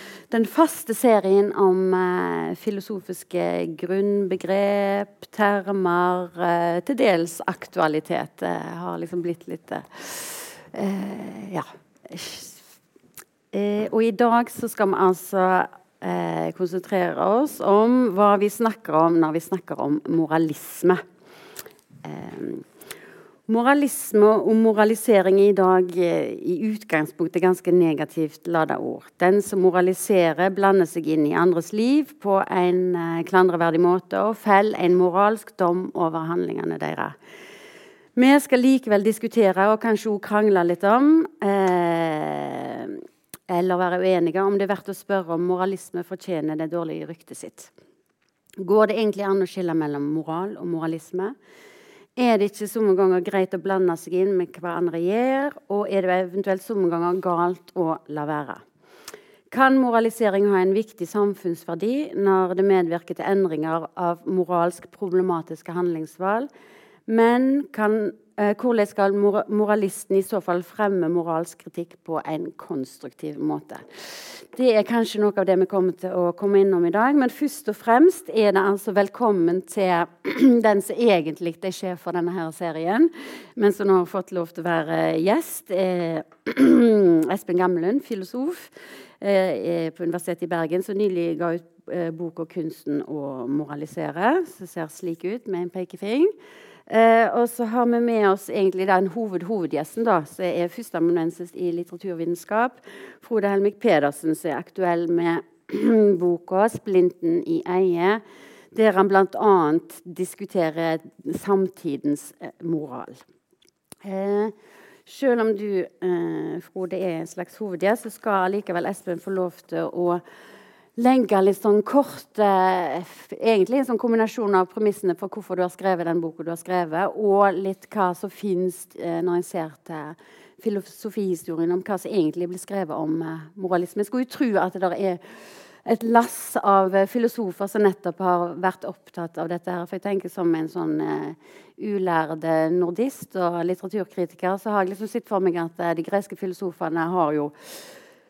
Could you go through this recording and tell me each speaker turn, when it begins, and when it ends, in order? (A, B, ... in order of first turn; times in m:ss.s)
0:00.2-0:12.6 A
0:13.5-0:21.0 A
0:22.0-0:22.7 A
0:23.5-0:37.2 A
0:38.2-0:47.7 A
0:48.6-0:51.4 A
0:52.2-0:58.6 A
0:59.5-1:06.5 A
1:07.1-1:36.3 A
1:36.9-1:53.2 A
1:54.0-1:54.6 A
1:55.1-2:00.2 A
2:01.0-2:28.0 A